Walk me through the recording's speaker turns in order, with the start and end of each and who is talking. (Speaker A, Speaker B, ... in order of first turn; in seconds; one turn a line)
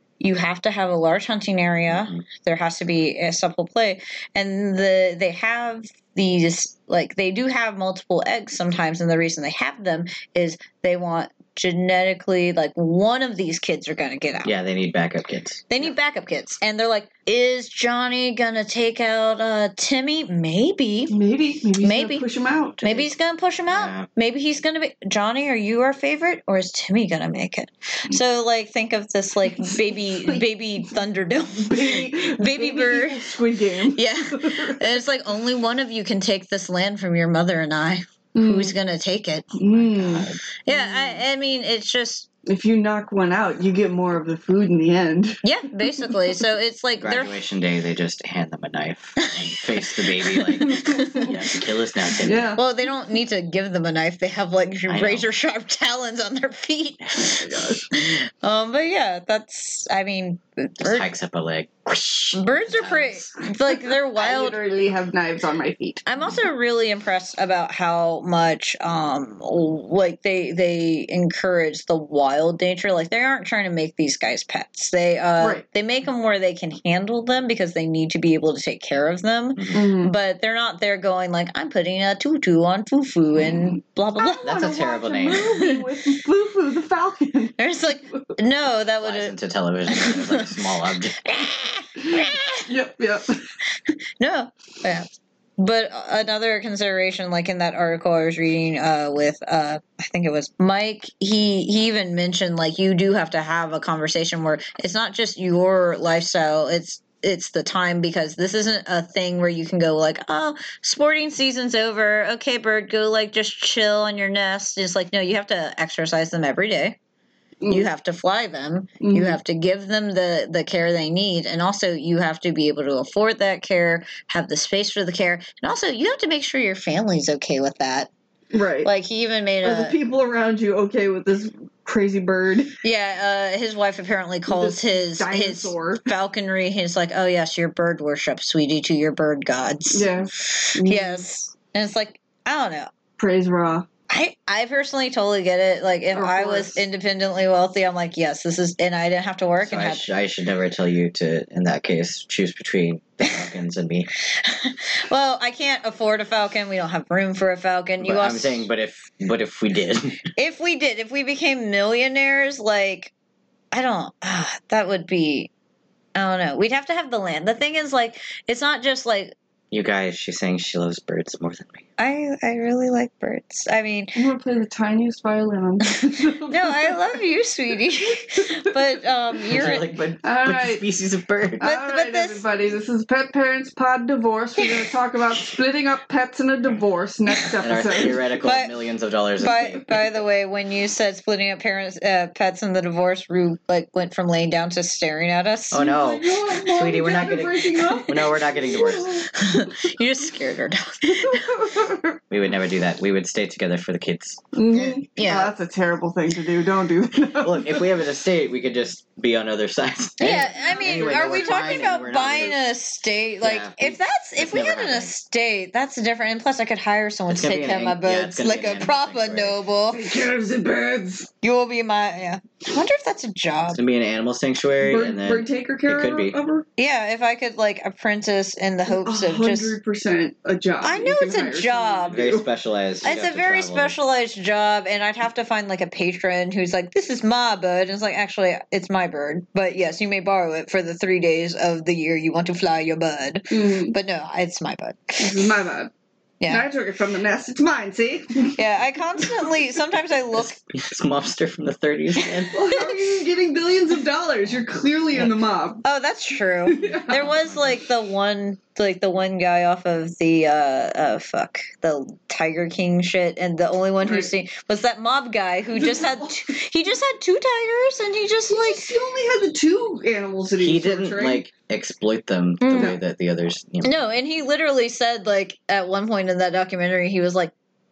Speaker A: 0.2-14.5
Speaker B: 1.9-2.2
Speaker B: 14.4-15.6
Speaker A: 15.7-21.1
Speaker C: 21.1-23.0
Speaker A: 21.8-22.2
Speaker A: 22.8-33.3
Speaker B: 23.7-24.1
Speaker C: 29.5-30.4
Speaker C: 31.6-35.0
Speaker A: 33.9-39.5
Speaker C: 38.3-38.7
Speaker C: 39.6-41.2
Speaker B: 39.7-40.4
Speaker A: 40.6-42.3
Speaker C: 42.5-45.4
Speaker A: 45.4-47.4
Speaker B: 47.0-52.6
Speaker A: 50.3-51.3
Speaker C: 50.6-51.4
Speaker C: 52.2-52.6
Speaker A: 52.6-61.1
Speaker B: 54.9-55.3
Speaker C: 57.3-57.9
Speaker B: 60.8-63.2
Speaker A: 62.3-64.6
Speaker C: 63.7-66.0
Speaker A: 66.0-84.5
Speaker C: 75.4-75.6
Speaker B: 79.5-79.8
Speaker C: 79.7-80.1
Speaker C: 84.2-88.3
Speaker B: 84.4-85.6
Speaker A: 85.5-85.8
Speaker A: 87.6-89.3
Speaker B: 89.0-91.2
Speaker A: 89.9-90.5
Speaker A: 91.2-92.7
Speaker C: 92.0-93.4
Speaker A: 93.9-117.0
Speaker C: 117.6-117.9
Speaker A: 117.7-128.1
Speaker C: 119.0-119.4
Speaker C: 128.5-128.9
Speaker A: 128.8-129.9
Speaker C: 129.6-132.7
Speaker A: 132.8-142.9
Speaker C: 134.5-136.1
Speaker C: 139.9-141.2
Speaker C: 143.2-143.9
Speaker A: 144.1-150.1
Speaker C: 146.1-146.8
Speaker B: 149.6-154.1
Speaker A: 154.4-158.7
Speaker B: 158.0-160.2
Speaker A: 160.3-163.1
Speaker A: 163.7-165.5
Speaker A: 166.1-169.3
Speaker B: 169.7-171.8
Speaker A: 172.0-174.2
Speaker C: 174.1-177.2
Speaker A: 176.5-179.9
Speaker B: 179.5-181.6
Speaker C: 180.2-180.9
Speaker C: 181.6-188.2
Speaker A: 181.6-182.4
Speaker B: 187.6-190.0
Speaker A: 188.4-188.7
Speaker A: 189.4-195.9
Speaker B: 195.7-199.2
Speaker C: 195.8-199.3
Speaker A: 199.3-201.7
Speaker C: 201.0-202.2
Speaker B: 202.3-204.4
Speaker C: 204.5-207.9
Speaker A: 204.7-205.5
Speaker B: 207.4-212.6
Speaker A: 210.2-220.1
Speaker C: 210.4-211.8
Speaker B: 213.4-215.1
Speaker B: 217.3-219.6
Speaker C: 219.9-221.3
Speaker A: 221.4-223.8
Speaker B: 223.7-226.4
Speaker C: 224.8-226.7
Speaker A: 226.8-229.8
Speaker C: 228.9-232.4
Speaker A: 230.8-232.2
Speaker B: 232.1-233.9
Speaker A: 233.0-245.5
Speaker C: 243.5-243.9
Speaker C: 245.2-245.9
Speaker C: 246.5-248.6
Speaker A: 248.6-250.6
Speaker C: 249.2-249.5
Speaker B: 250.7-252.6
Speaker C: 252.5-255.8
Speaker A: 255.8-268.8
Speaker C: 256.7-257.3
Speaker C: 264.0-264.3
Speaker C: 265.7-266.5
Speaker C: 268.5-271.4
Speaker B: 270.6-274.0
Speaker A: 272.6-272.9
Speaker A: 273.8-277.5